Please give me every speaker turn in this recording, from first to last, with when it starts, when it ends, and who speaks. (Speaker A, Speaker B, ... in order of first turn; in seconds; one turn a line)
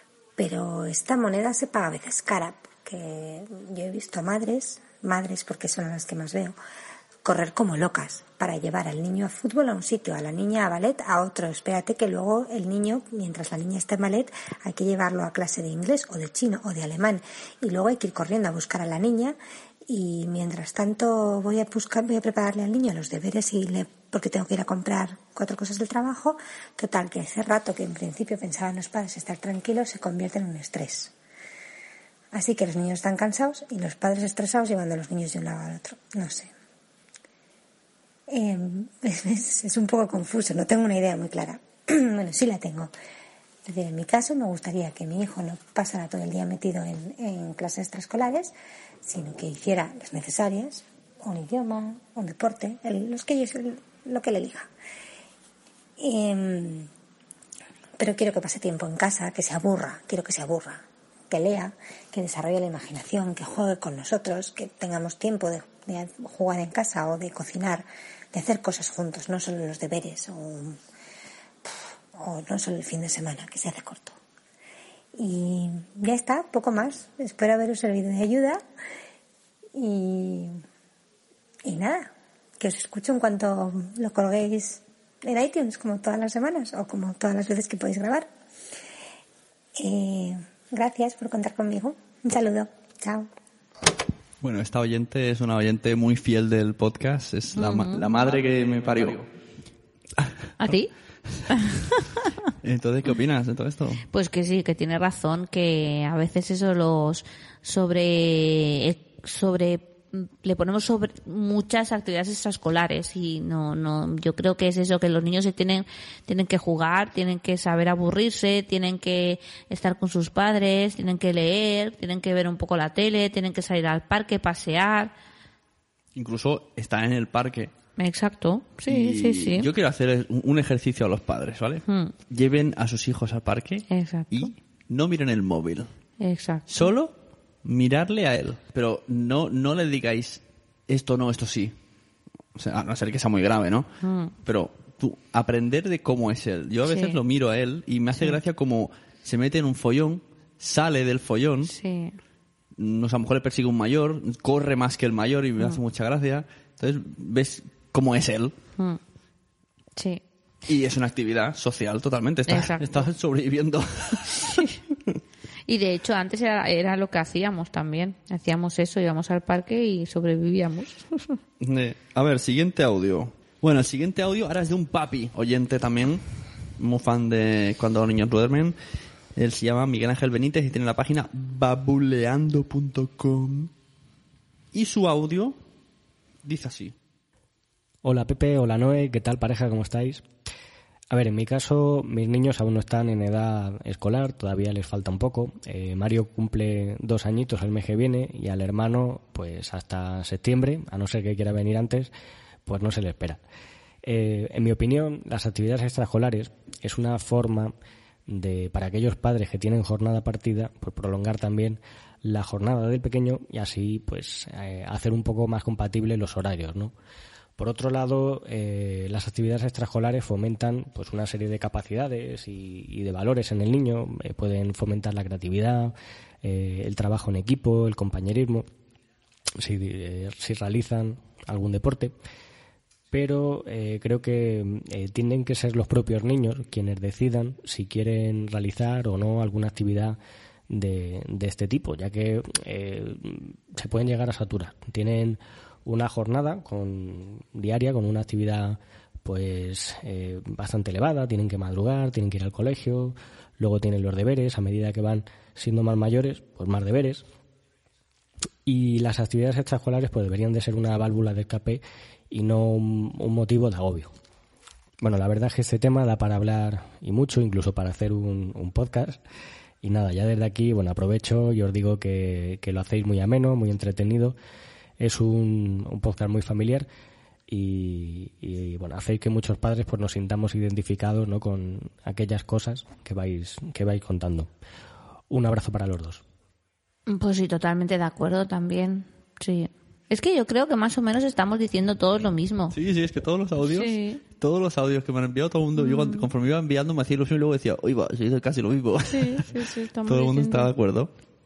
Speaker A: 0.4-6.5
Speaker A: 7.2-31.1
Speaker A: 32.3-36.5
Speaker A: 38.3-42.9
Speaker A: 43.6-48.5
Speaker A: 49.0-54.7
Speaker A: 56.0-56.9
Speaker A: 58.0-70.8
Speaker A: 71.6-74.2
Speaker A: 75.2-78.6
Speaker A: 79.7-80.6
Speaker A: 81.6-88.3
Speaker A: 89.8-93.3
Speaker B: 94.4-99.3
Speaker C: 97.5-98.0
Speaker B: 100.2-100.7
Speaker C: 100.6-100.9
Speaker C: 101.5-102.3
Speaker B: 102.6-104.0
Speaker C: 104.1-125.1
Speaker B: 126.2-127.7
Speaker C: 128.0-129.7
Speaker B: 128.9-135.9
Speaker C: 131.9-132.1
Speaker C: 133.9-134.5
Speaker C: 136.2-136.9
Speaker B: 136.7-137.1
Speaker B: 137.6-141.8
Speaker B: 142.6-143.9
Speaker C: 144.0-144.3
Speaker B: 144.4-151.7
Speaker C: 146.8-147.2
Speaker C: 151.6-152.2
Speaker B: 152.8-158.5
Speaker C: 159.9-160.2
Speaker B: 160.7-164.6
Speaker C: 162.5-163.1
Speaker C: 164.5-164.8
Speaker C: 165.7-171.4
Speaker B: 171.6-176.2
Speaker B: 176.8-178.8
Speaker B: 179.3-183.7
Speaker B: 184.7-185.6
Speaker B: 186.4-186.9
Speaker D: 188.0-190.2
Speaker D: 191.1-202.1
Speaker D: 202.7-203.4
Speaker D: 204.0-207.7
Speaker D: 208.3-216.9
Speaker D: 217.6-228.7
Speaker D: 229.6-232.1
Speaker D: 233.1-257.2
Speaker D: 258.6-264.1
Speaker D: 265.0-269.2
Speaker D: 269.8-274.4
Speaker D: 275.0-276.9
Speaker D: 277.5-284.5
Speaker D: 285.3-286.2
Speaker C: 287.1-292.8
Speaker B: 292.7-301.1
Speaker C: 293.6-294.2
Speaker C: 295.8-296.3
Speaker C: 299.1-300.7